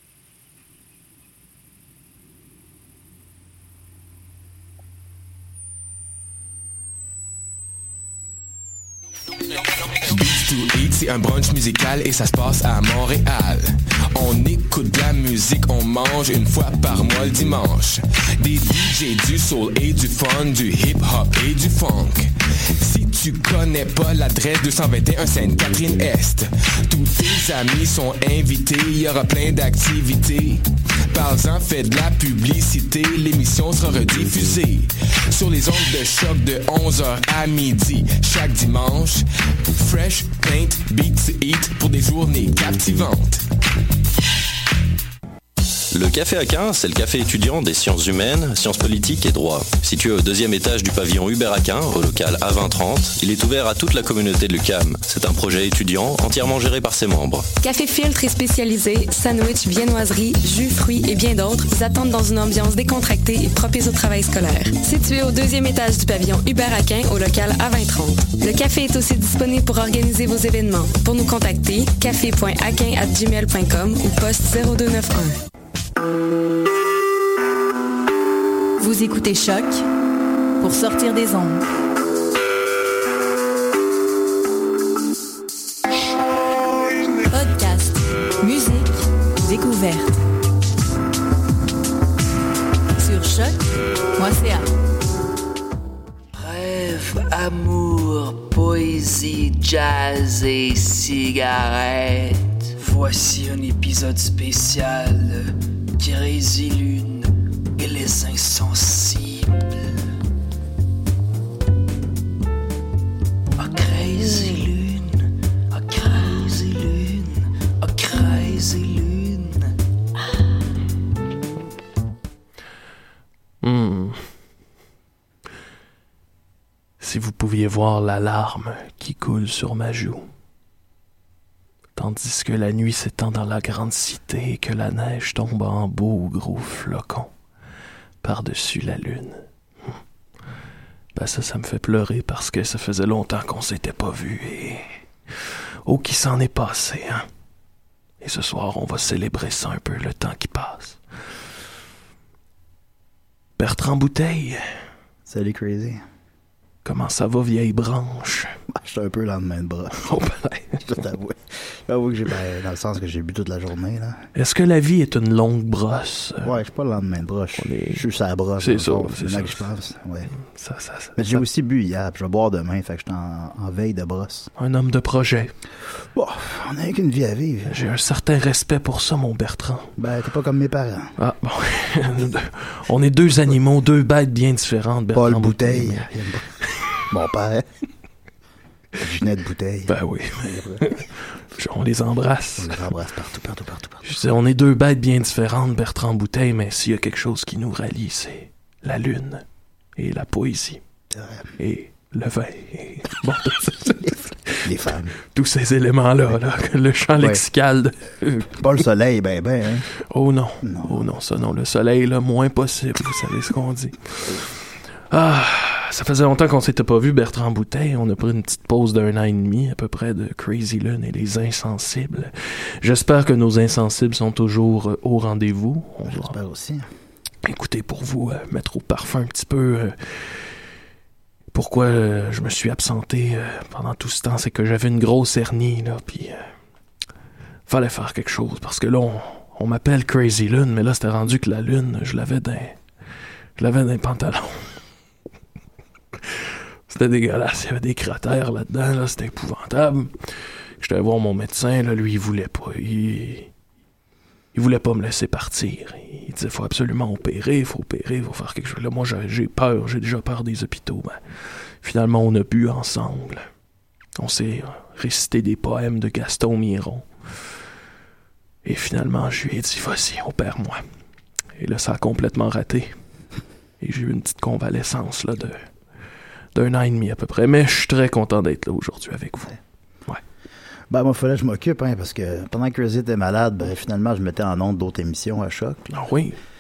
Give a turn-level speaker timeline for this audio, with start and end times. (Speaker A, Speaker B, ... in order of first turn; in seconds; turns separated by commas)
Speaker A: 9.9-43.5, Speaker B: 45.9-57.5, Speaker C: 57.6-75.4, Speaker D: 78.8-79.9, Speaker D: 80.6-81.7, Speaker D: 87.3-90.2, Speaker D: 93.0-93.6, Speaker D: 94.2-94.7, Speaker E: 96.3-110.0, Speaker E: 113.6-119.7, Speaker F: 123.6-124.3, Speaker F: 127.0-130.3, Speaker F: 132.0-137.3, Speaker F: 138.2-139.4, Speaker F: 141.2-144.9, Speaker F: 145.8-147.3, Speaker F: 148.2-151.0, Speaker F: 153.6-154.6, Speaker G: 155.3-156.0, Speaker F: 156.8-158.6, Speaker G: 158.7-160.2, Speaker F: 160.0-160.8, Speaker G: 160.8-164.3, Speaker F: 164.3-166.5, Speaker G: 166.4-170.3, Speaker F: 167.6-168.1, Speaker F: 168.6-169.6, Speaker F: 170.4-171.4, Speaker G: 171.2-174.5, Speaker F: 174.6-175.5, Speaker G: 176.0-177.8, Speaker F: 177.7-179.9, Speaker G: 180.0-181.2, Speaker F: 181.2-186.1, Speaker G: 185.1-186.5, Speaker G: 187.1-187.7, Speaker G: 189.0-190.9, Speaker F: 189.9-192.9, Speaker G: 192.6-194.1, Speaker F: 194.0-199.4, Speaker F: 200.0-200.8, Speaker G: 201.1-201.5, Speaker F: 201.6-204.7, Speaker G: 204.6-205.2, Speaker F: 205.3-208.6, Speaker G: 207.2-207.4, Speaker G: 208.6-209.9, Speaker F: 210.1-214.5, Speaker G: 210.6-211.1, Speaker F: 215.1-226.3, Speaker G: 226.1-226.9, Speaker F: 227.4-230.2, Speaker F: 231.5-236.5, Speaker F: 237.7-242.8, Speaker F: 243.6-244.7, Speaker F: 246.3-250.1, Speaker F: 250.8-253.5, Speaker F: 254.5-261.2, Speaker F: 261.8-263.5, Speaker F: 264.2-267.1, Speaker F: 268.6-270.8, Speaker F: 271.6-272.9, Speaker F: 273.8-275.7, Speaker F: 276.5-280.2, Speaker G: 280.9-285.9, Speaker F: 285.9-286.4